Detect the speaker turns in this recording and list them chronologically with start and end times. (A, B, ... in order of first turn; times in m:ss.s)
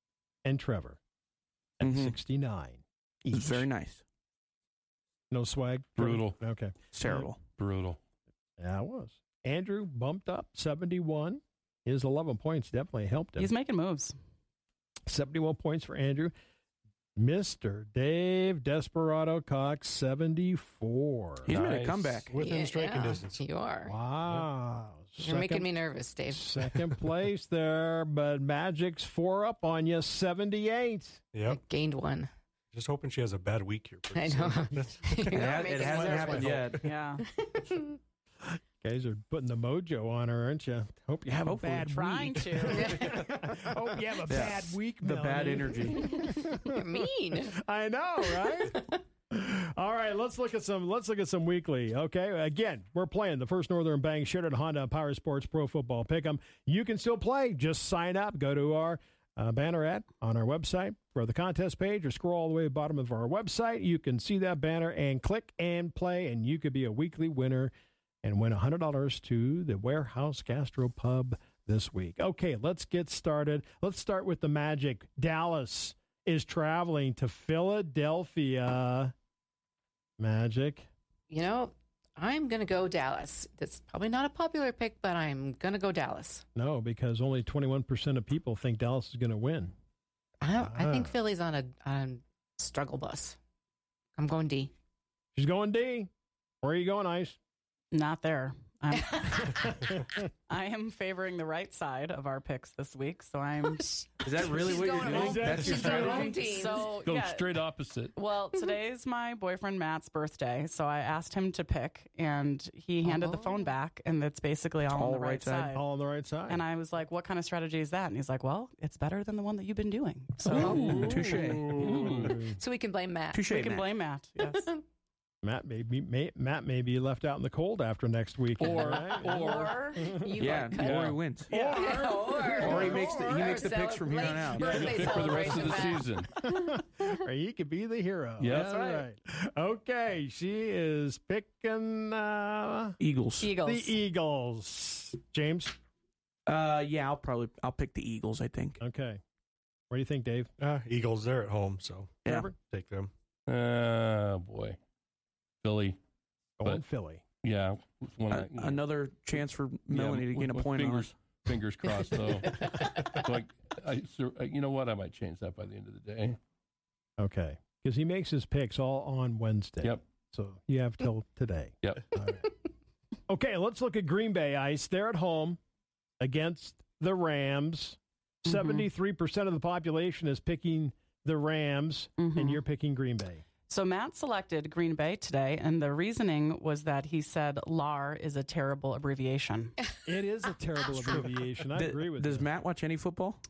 0:00.4-0:01.0 A
0:01.8-0:03.7 A
0:01.8-0:02.2 B
0:03.3-0:04.0 B
0:05.3-0:07.3 A
0:06.0-0:06.4 C
0:06.9-0:07.4 B
0:07.6-0:08.0 C
0:08.6-0:13.5 A
0:13.4-0:14.1 D
0:15.1-0:16.3 A
0:17.2-0:21.5 A
0:21.4-0:22.3 B
0:21.5-0:22.2 C
0:22.2-0:23.4 E
0:22.4-0:23.9 F
0:23.8-0:25.7 A
0:25.2-0:26.6 F
0:26.3-0:31.2 A
0:31.3-0:31.6 E
0:31.4-0:32.3 F
0:32.7-0:36.9 E
0:34.1-0:36.6 F
0:35.3-0:36.8 B
0:36.0-0:36.3 D
0:36.8-0:37.2 D
0:37.2-0:38.0 F
0:38.8-0:47.0 A
0:41.4-0:42.5 B
0:42.0-0:42.9 D
0:42.6-0:44.0 F
0:44.3-0:46.0 B
0:45.9-0:47.6 F
0:47.5-1:19.1 A
0:48.2-0:48.8 F
1:20.2-1:20.9 A
1:21.3-1:26.4 F
1:26.5-1:29.7 A
1:30.4-1:33.4 F
1:30.6-1:31.1 A
1:34.2-1:34.7 F
1:35.3-1:36.1 A
1:36.6-1:37.4 A
1:37.9-1:39.7 D
1:39.2-1:39.7 F
1:40.5-1:43.9 D
1:43.8-1:47.0 F
1:44.2-1:46.4 B
1:45.1-1:46.4 A
1:45.6-1:47.6 D
1:45.8-1:46.3 C
1:46.8-1:48.1 C
1:48.1-1:55.8 D
1:53.0-1:53.7 F
1:54.9-1:55.7 B
1:55.7-1:56.6 A
1:56.5-2:00.8 D
2:00.5-2:02.4 C
2:00.5-2:01.1 F
2:00.7-2:02.6 A
2:01.0-2:01.8 B
2:02.4-2:03.5 F
2:03.3-2:03.9 B
2:03.4-2:04.7 D
2:04.4-2:04.8 F
2:05.4-2:10.5 A
2:08.6-2:10.0 C
2:08.7-2:09.9 D
2:09.4-2:16.2 F
2:10.4-2:11.7 B
2:10.6-2:11.2 C
2:11.5-2:12.0 D
2:11.5-2:13.8 A
2:12.5-2:14.9 B
2:14.5-2:16.3 C
2:16.4-2:23.0 A
2:18.4-2:18.9 C
2:18.5-2:19.0 B
2:23.0-2:23.6 B
2:23.4-2:24.0 D
2:23.6-2:25.8 A
2:26.5-2:28.8 B
2:28.8-2:29.2 A
2:29.9-2:30.5 A
2:30.6-2:33.1 E
2:32.2-2:32.6 A
2:33.5-2:34.8 C
2:35.6-2:36.0 C
2:36.6-2:37.2 A
2:37.4-2:38.9 C
2:38.3-2:41.1 B
2:39.9-2:46.4 C
2:47.2-2:52.5 A
2:53.3-2:55.6 A
2:56.2-3:03.4 A
2:58.4-2:58.9 D
3:02.2-3:02.6 D
3:03.7-3:09.8 D
3:10.0-3:12.5 A
3:11.7-3:13.4 B